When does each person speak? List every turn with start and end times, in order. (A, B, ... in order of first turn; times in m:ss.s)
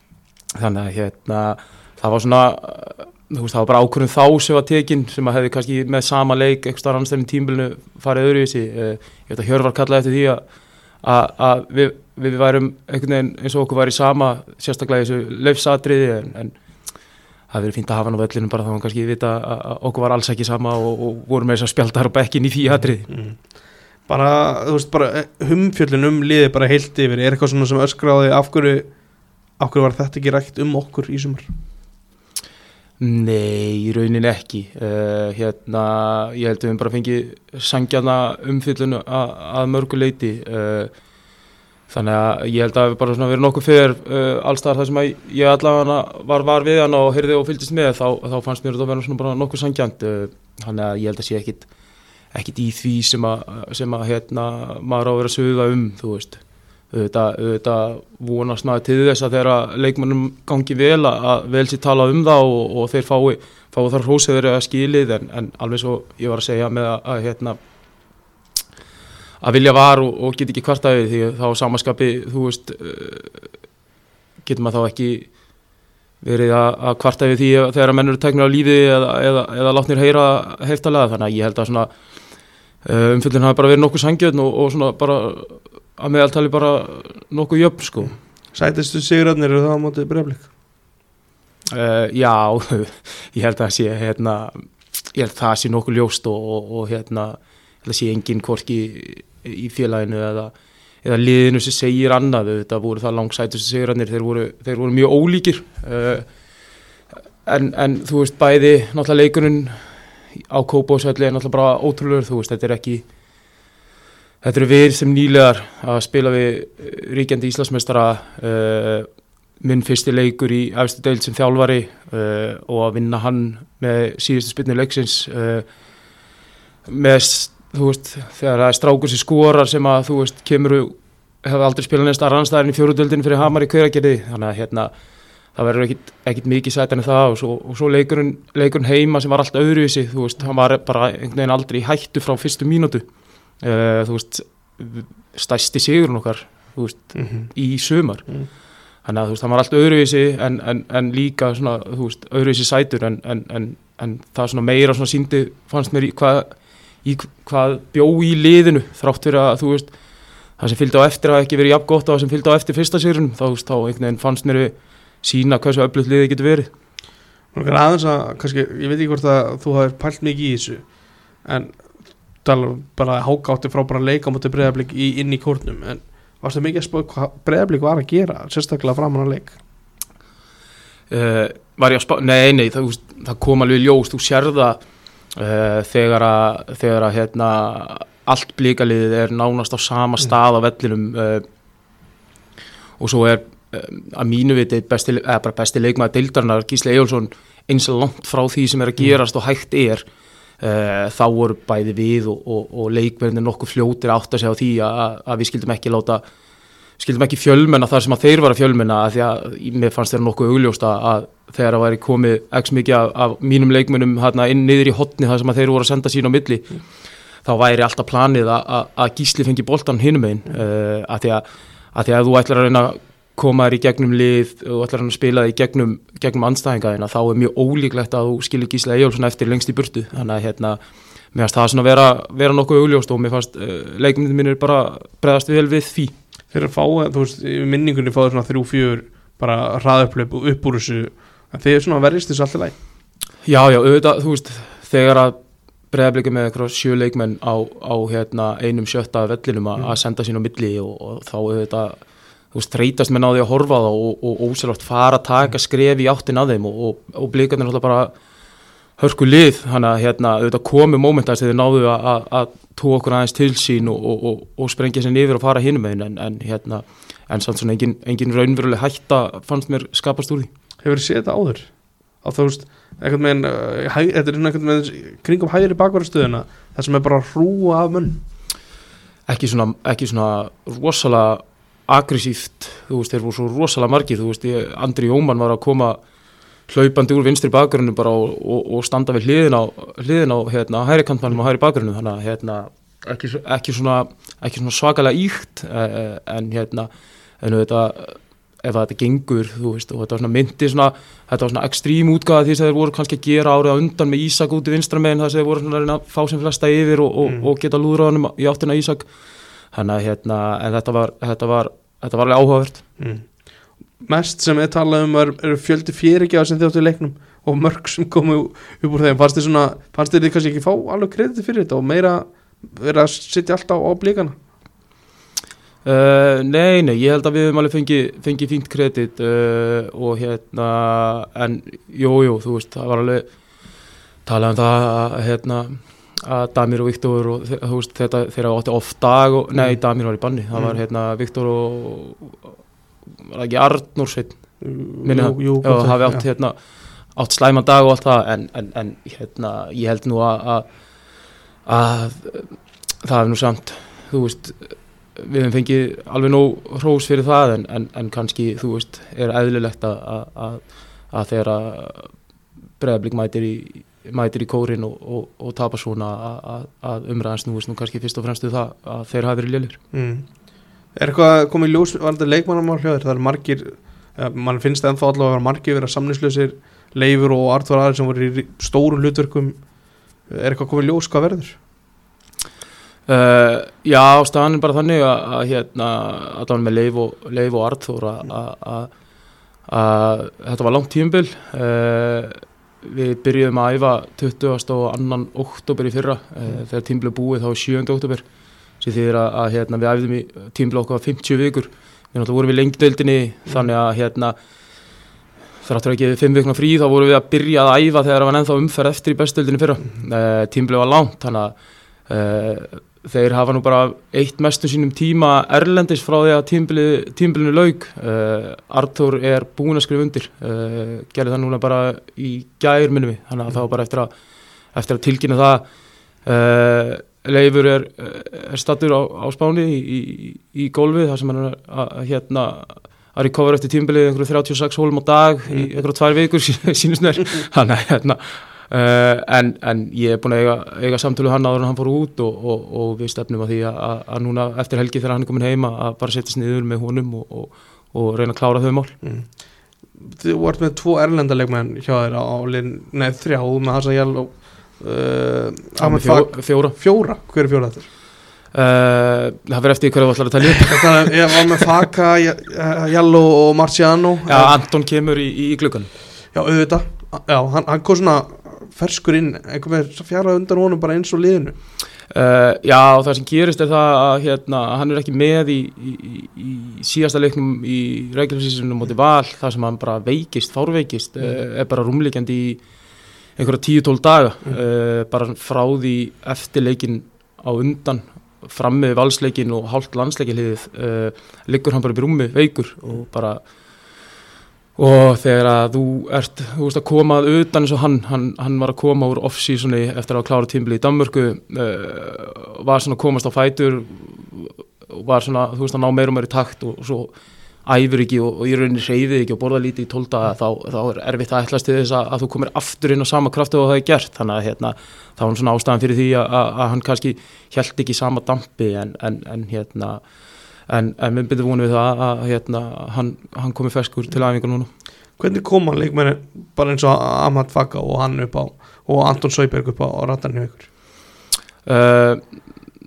0:00.5-0:10.4 A
0:11.0-0:16.5 A
0:17.5-0:23.1 A
0:23.1-0:23.4 B
0:24.1-0:28.9 B
0:29.6-0:31.5 B
0:33.0-0:40.9 A
0:41.9-0:51.7 A
0:52.3-1:07.6 A
1:09.4-1:13.4 A
1:14.4-1:15.3 A
1:16.2-1:21.9 A
1:22.8-1:28.1 A
1:28.5-1:30.5 B
1:31.7-1:40.5 A
1:41.0-1:46.3 A
1:47.4-1:53.0 A
1:54.4-1:59.1 A
1:59.6-2:05.6 A
2:06.8-2:14.9 A
2:15.5-2:23.0 A
2:23.6-2:28.2 A
2:27.1-2:27.5 B
2:29.0-2:39.9 A
2:40.6-2:46.7 A
2:47.5-2:50.8 B
2:51.4-2:51.8 B
2:52.4-2:59.6 B
3:01.1-3:04.8 A
3:05.3-3:11.4 A
3:13.0-3:20.0 A
3:20.6-3:26.2 A
3:27.0-3:36.7 A
3:37.4-3:50.8 A
3:51.3-3:56.1 A
3:56.5-4:02.7 B
4:03.4-4:05.4 A
4:05.9-4:12.0 A
4:12.5-4:18.1 A
4:19.0-4:30.5 A
4:30.8-4:31.7 B
4:32.2-4:38.2 B
4:39.3-4:46.0 A
4:46.7-4:56.9 A
4:57.4-5:09.0 A
5:07.2-5:07.5 B
5:09.7-5:12.8 A
5:13.0-5:13.2 B
5:14.0-5:24.4 B
5:25.8-5:33.2 A
5:34.2-5:42.5 A
5:43.2-5:44.4 A
5:44.6-5:46.2 B
5:45.0-5:46.6 A
5:47.2-5:50.6 A
5:51.6-6:02.1 A
6:02.8-6:09.8 A
6:09.9-6:10.2 B
6:10.9-6:19.6 B
6:20.3-6:21.6 B
6:23.1-6:28.9 A
6:29.7-6:38.2 A
6:38.8-6:44.4 A
6:45.6-6:51.5 A
6:52.1-7:04.1 A
7:04.7-7:05.6 A
7:06.2-7:28.9 A
7:29.0-7:29.3 B
7:30.0-7:37.9 B
7:35.8-7:36.8 A
7:38.5-7:41.1 A
7:40.5-7:44.5 B
7:44.2-7:45.9 A
7:46.3-7:51.6 B
7:52.1-8:02.6 A
8:03.4-8:13.4 A
8:14.8-8:27.1 A
8:27.6-8:40.0 A
8:40.7-8:44.7 A
8:45.2-8:50.7 B
8:51.6-8:52.2 A